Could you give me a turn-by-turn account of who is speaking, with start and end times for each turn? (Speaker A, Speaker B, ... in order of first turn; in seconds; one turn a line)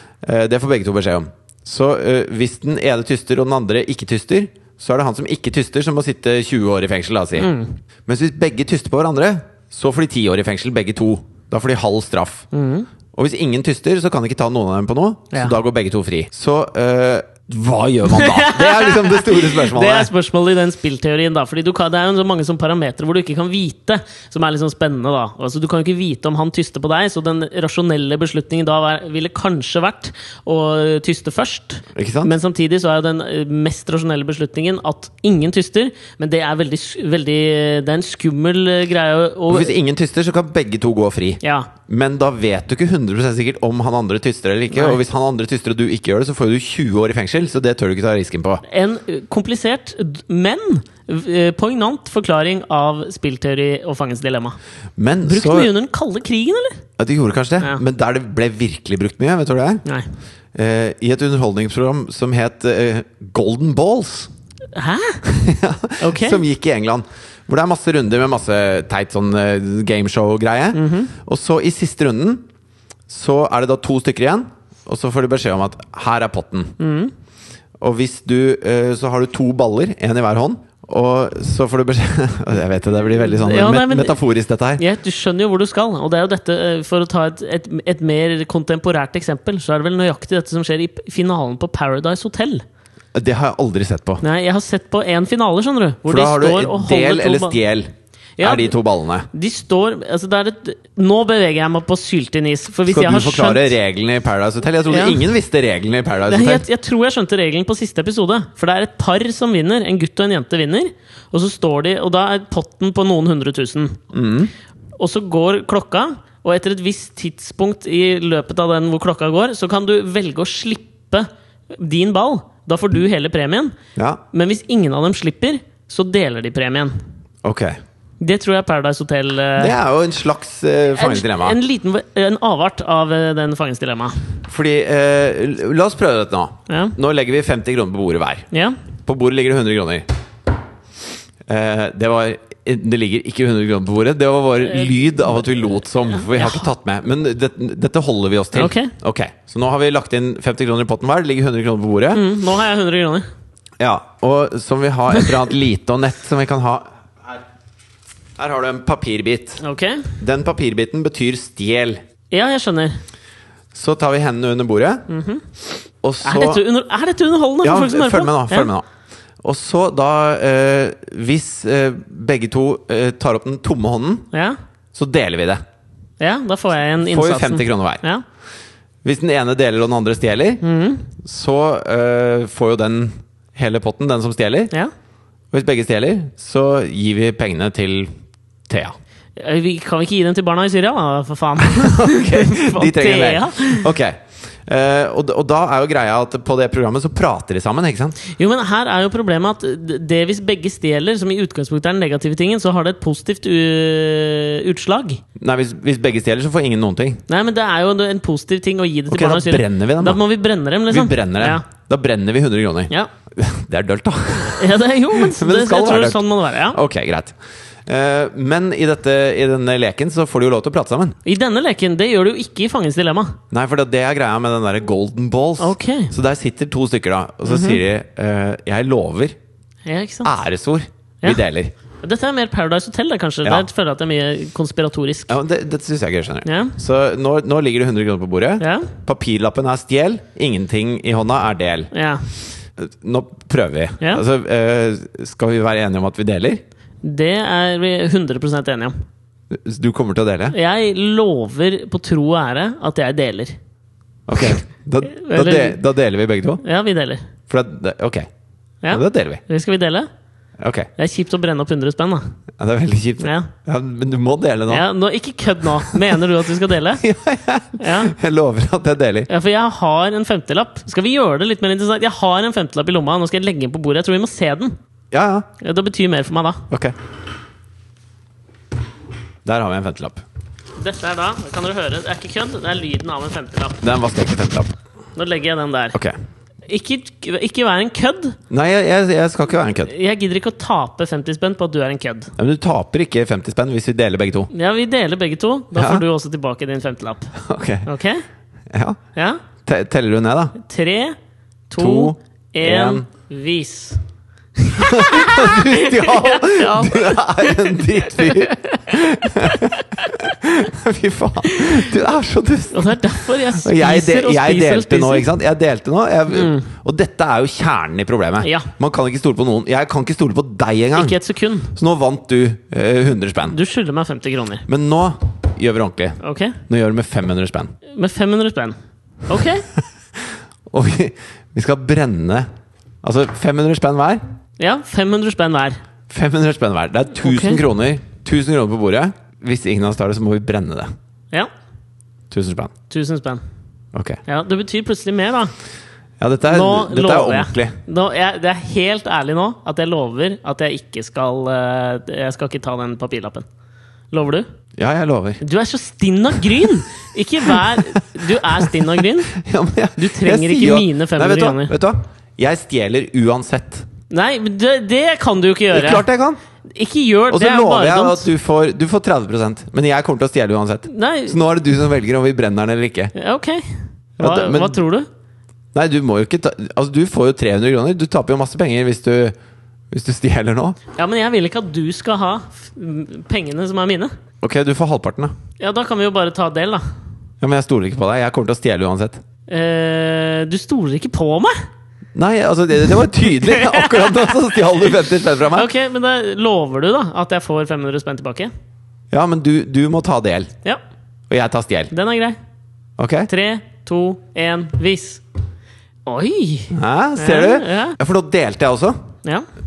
Speaker A: 0.2-7.5
Speaker B: 7.4-7.8
Speaker A: 8.1-12.5
Speaker B: 12.5-12.9
Speaker A: 13.1-20.1
Speaker B: 18.1-39.8
Speaker A: 31.9-32.3
Speaker A: 39.5-48.6
Speaker B: 41.4-41.7
Speaker B: 44.7-45.0
Speaker B: 48.6-54.6
Speaker A: 55.0-55.7
Speaker B: 55.3-56.8
Speaker A: 57.0-59.8
Speaker A: 60.5-64.3
Speaker B: 64.8-65.2
Speaker A: 65.2-72.5
Speaker B: 66.0-66.4
Speaker B: 70.7-71.1
Speaker A: 73.1-76.8
Speaker B: 76.8-77.1
Speaker A: 77.8-84.8
Speaker B: 83.2-84.2
Speaker B: 84.8-92.6
Speaker A: 93.1-94.2
Speaker B: 94.2-97.6
Speaker A: 96.1-99.3
Speaker B: 98.4-98.8
Speaker B: 99.3-103.7
Speaker A: 102.9-106.7
Speaker B: 104.9-105.2
Speaker B: 106.3-114.0
Speaker A: 114.1-114.5
Speaker B: 115.0-123.7
Speaker A: 124.0-124.2
Speaker B: 124.3-127.0
Speaker A: 127.4-127.8
Speaker B: 128.2-129.8
Speaker A: 129.6-131.6
Speaker B: 130.9-134.2
Speaker A: 134.5-138.5
Speaker B: 136.7-137.0
Speaker A: 139.1-140.1
Speaker A: 141.5-152.2
Speaker B: 144.8-145.4
Speaker B: 146.1-146.7
Speaker B: 148.5-148.9
Speaker B: 152.1-153.3
Speaker A: 153.8-157.4
Speaker A: 158.4-159.6
Speaker B: 159.6-160.1
Speaker A: 160.2-162.0
Speaker B: 162.3-163.0
Speaker A: 163.7-165.1
Speaker B: 165.1-165.4
Speaker A: 166.0-166.6
Speaker B: 166.2-168.7
Speaker A: 167.6-168.8
Speaker A: 169.4-174.3
Speaker B: 174.3-174.6
Speaker A: 174.9-175.6
Speaker B: 176.2-178.2
Speaker A: 177.0-178.0
Speaker A: 179.0-180.6
Speaker B: 180.6-181.1
Speaker A: 181.2-184.7
Speaker A: 185.5-188.2
Speaker A: 188.7-189.0
Speaker B: 189.4-193.9
Speaker A: 191.6-198.2
Speaker B: 198.2-205.2
Speaker A: 205.4-207.2
Speaker B: 207.3-211.6
Speaker A: 209.1-210.2
Speaker A: 210.9-221.2
Speaker B: 214.4-216.8
Speaker B: 221.2-223.4
Speaker A: 223.5-229.4
Speaker B: 225.6-226.1
Speaker B: 227.5-227.8
Speaker B: 229.9-230.3
Speaker A: 230.2-231.7
Speaker B: 232.0-235.3
Speaker A: 235.3-241.9
Speaker B: 236.4-236.8
Speaker B: 238.6-238.9
Speaker B: 241.9-242.2
Speaker A: 242.8-246.6
Speaker B: 247.0-249.0
Speaker A: 249.5-250.6
Speaker B: 250.5-253.6
Speaker A: 254.3-256.6
Speaker B: 255.1-255.8
Speaker B: 256.6-257.3
Speaker A: 257.5-258.3
Speaker B: 258.8-260.1
Speaker A: 258.9-259.4
Speaker A: 260.6-260.9
Speaker B: 261.0-262.3
Speaker A: 262.6-264.9
Speaker B: 263.2-263.5
Speaker B: 264.7-267.0
Speaker A: 265.9-266.2
Speaker A: 267.0-269.3
Speaker B: 267.8-268.1
Speaker B: 269.3-274.8
Speaker A: 275.1-275.5
Speaker B: 275.6-276.6
Speaker A: 276.7-276.9
Speaker A: 279.4-280.2
Speaker B: 280.8-283.8
Speaker A: 283.8-284.7
Speaker B: 285.2-286.0
Speaker B: 286.7-288.4
Speaker A: 288.5-289.9
Speaker B: 289.9-292.3
Speaker A: 292.4-294.5
Speaker B: 294.5-297.3
Speaker A: 295.8-296.0
Speaker A: 297.4-297.9
Speaker B: 297.9-298.2
Speaker A: 298.7-299.0
Speaker B: 299.1-299.4
Speaker A: 299.6-300.6
Speaker B: 300.6-301.2
Speaker B: 301.7-304.0
Speaker A: 301.8-303.1
Speaker B: 304.6-308.9
Speaker A: 304.8-321.2
Speaker B: 309.4-309.7
Speaker B: 312.7-315.3
Speaker B: 316.3-316.7
Speaker B: 318.4-318.7
Speaker B: 320.9-321.7
Speaker A: 321.8-323.6
Speaker B: 323.5-324.6
Speaker A: 324.7-327.7
Speaker B: 326.2-326.6
Speaker B: 327.9-329.7
Speaker A: 330.7-332.5
Speaker A: 333.0-334.2
Speaker B: 334.6-335.8
Speaker A: 336.1-340.9
Speaker B: 337.2-337.6
Speaker A: 342.3-342.7
Speaker B: 342.9-343.4
Speaker A: 343.9-344.2
Speaker B: 344.3-345.5
Speaker A: 346.2-347.8
Speaker B: 346.4-353.5
Speaker B: 354.1-354.5
Speaker A: 354.8-355.4
Speaker B: 355.4-359.3
Speaker A: 357.5-363.9
Speaker B: 360.0-361.7
Speaker B: 364.1-366.0
Speaker A: 365.7-366.4
Speaker B: 366.8-368.3
Speaker A: 367.3-373.1
Speaker B: 370.9-371.4
Speaker B: 373.2-373.7
Speaker A: 374.2-374.8
Speaker B: 374.2-375.1
Speaker A: 375.7-379.4
Speaker A: 379.9-380.8
Speaker B: 381.0-384.1
Speaker A: 384.4-385.3
Speaker B: 385.6-386.9
Speaker A: 387.4-389.2
Speaker B: 389.5-391.6
Speaker A: 392.1-395.7
Speaker B: 393.3-394.3
Speaker B: 395.5-398.5
Speaker A: 399.1-400.5
Speaker A: 401.3-401.9
Speaker B: 401.9-402.4
Speaker A: 403.0-403.3
Speaker B: 403.3-405.2
Speaker B: 406.1-408.0
Speaker A: 406.7-409.0